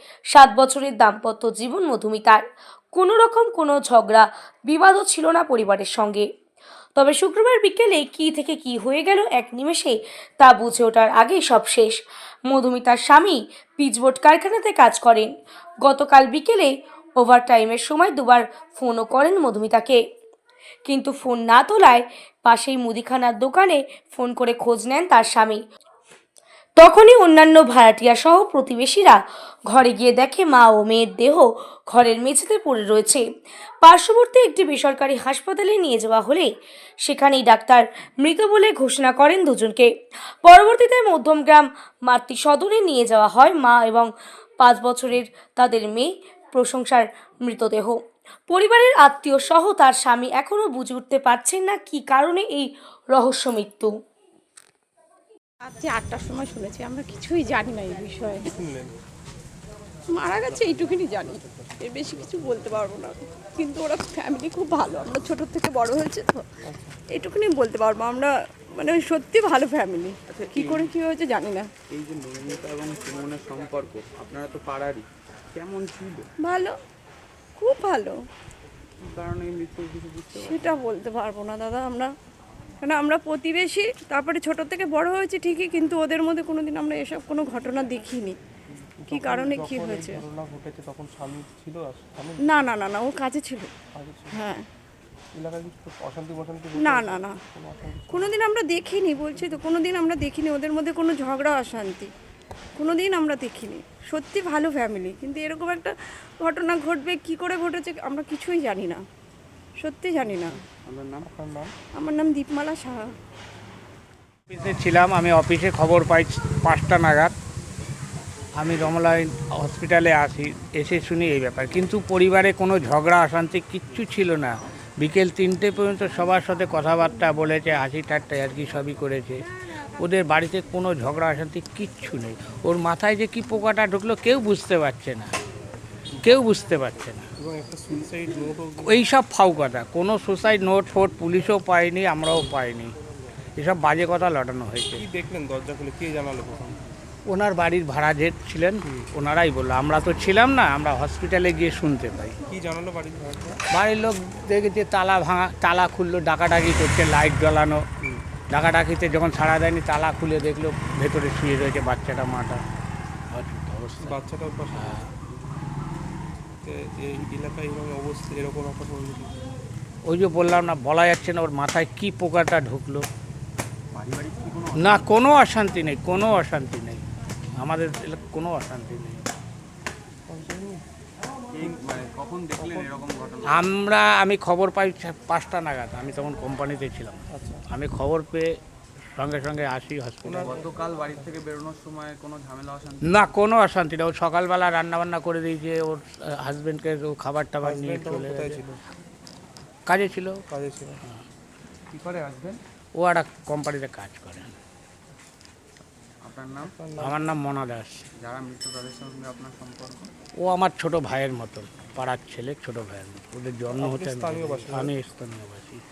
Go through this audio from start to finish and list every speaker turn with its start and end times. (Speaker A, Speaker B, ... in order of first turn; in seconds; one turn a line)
Speaker A: 0.3-2.4
Speaker A: 2.9-6.3
Speaker A: 7.0-12.0
Speaker A: 12.5-15.3
Speaker A: 15.8-20.0
Speaker A: 20.9-25.6
Speaker A: 26.8-33.2
Speaker A: 33.8-36.5
Speaker A: 37.0-39.9
Speaker A: 40.4-48.0
Speaker A: 48.5-53.9
Speaker B: 55.7-58.5
Speaker C: 58.5-59.0
Speaker B: 60.1-66.5
Speaker C: 60.5-61.8
Speaker C: 66.7-67.0
Speaker B: 67.1-71.7
Speaker D: 70.3-70.9
Speaker D: 71.8-76.3
Speaker B: 76.4-76.8
Speaker B: 77.6-78.2
Speaker D: 79.0-80.8
Speaker B: 80.3-82.1
Speaker B: 82.8-88.4
Speaker C: 89.0-92.5
Speaker B: 89.1-90.2
Speaker B: 92.4-93.8
Speaker C: 93.9-94.4
Speaker B: 94.3-94.7
Speaker C: 95.3-98.3
Speaker B: 96.8-97.4
Speaker B: 98.1-102.1
Speaker B: 102.8-109.0
Speaker B: 109.8-110.6
Speaker D: 110.7-111.3
Speaker C: 111.2-111.8
Speaker B: 111.9-113.1
Speaker E: 114.5-117.3
Speaker E: 118.6-129.4
Speaker E: 130.0-135.3
Speaker E: 136.2-137.3
Speaker C: 137.4-139.0
Speaker E: 138.8-142.9
Speaker E: 143.6-145.0
Speaker C: 144.9-146.8
Speaker E: 147.3-152.4
Speaker C: 152.5-153.6
Speaker E: 153.7-157.8
Speaker E: 158.5-162.6
Speaker E: 163.3-164.2
Speaker C: 164.0-165.0
Speaker E: 164.7-165.1
Speaker C: 166.6-169.4
Speaker E: 170.1-173.1
Speaker D: 173.9-175.1
Speaker E: 174.8-177.0
Speaker E: 177.6-179.3
Speaker C: 180.3-180.8
Speaker D: 181.5-183.7
Speaker C: 181.6-181.9
Speaker C: 182.6-182.9
Speaker E: 183.4-188.5
Speaker C: 187.3-187.7
Speaker E: 189.2-190.6
Speaker C: 190.2-191.3
Speaker D: 190.4-193.3
Speaker E: 193.1-198.6
Speaker C: 197.6-198.8
Speaker E: 199.9-200.4
Speaker C: 200.5-201.0
Speaker D: 201.9-202.6
Speaker E: 203.0-204.6
Speaker D: 206.2-206.8
Speaker C: 206.6-207.2
Speaker E: 207.0-208.1
Speaker D: 208.2-210.1
Speaker E: 210.4-215.8
Speaker C: 213.7-214.9